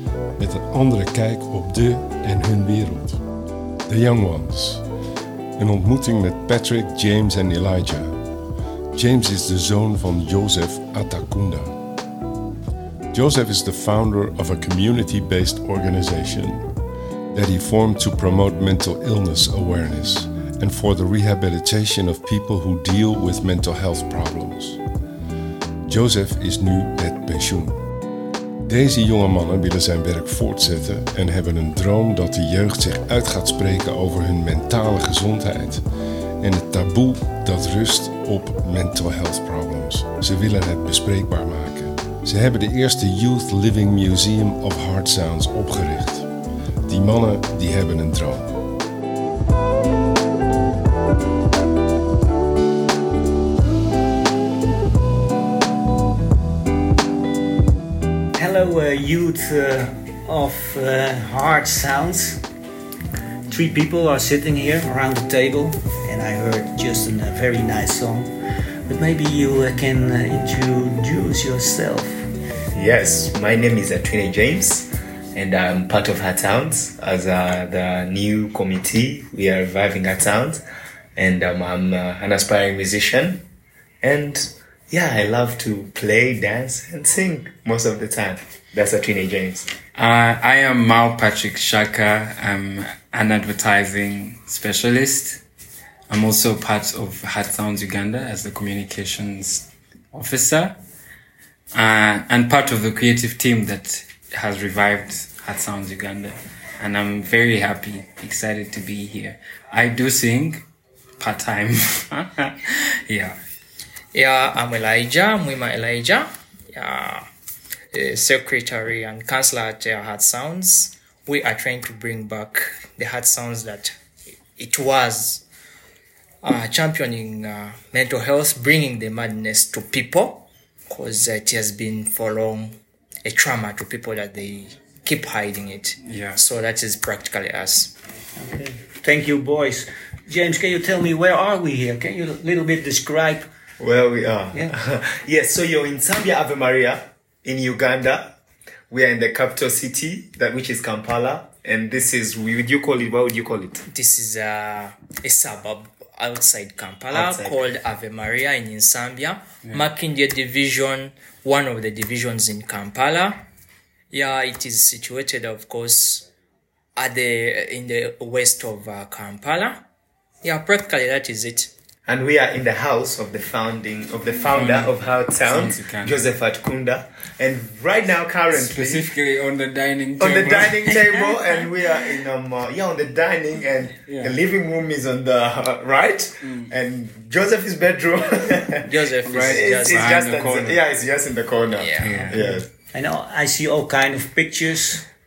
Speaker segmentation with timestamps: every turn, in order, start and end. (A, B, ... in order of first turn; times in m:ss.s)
0:00.4-0:03.2 A
0:03.8-0:04.8 A
0:05.6-0:08.2 A
0:08.9-0:11.7 A
0:13.1-0:16.6 A
0:17.3-0:24.8 A
0:25.8-0:27.8 A
0:28.6-0:35.8 A
0:36.4-0:46.3 A
0:46.8-0:48.5 A
0:58.3-1:02.4 B
1:03.5-1:08.3 B
1:08.9-1:12.3 B
1:12.7-1:20.6 C
1:21.2-1:23.4 C
1:24.0-1:29.7 C
1:29.9-1:35.4 D
1:36.1-1:40.8 D
1:41.7-1:50.6 D
1:51.2-1:53.4 D
1:54.1-1:57.3 E
1:57.9-2:03.9 E
2:04.6-2:05.4 E
2:06.4-2:17.9 E
2:16.0-2:16.4 D
2:18.4-2:23.5 B
2:23.8-2:28.4 C
2:28.9-2:33.8 C
2:33.9-2:43.4 E
2:37.1-2:37.6 C
2:44.1-2:46.3 E
2:47.0-2:49.8 E
2:50.4-2:51.7 E
2:52.0-2:59.1 C
2:54.5-2:56.2 D
2:58.5-3:01.7 D
3:00.2-3:12.6 C
3:04.0-3:04.4 D
3:06.4-3:06.7 D
3:08.8-3:10.1 E
3:09.2-3:10.8 D
3:11.7-3:12.3 E
3:12.0-3:12.4 D
3:12.3-3:15.0 B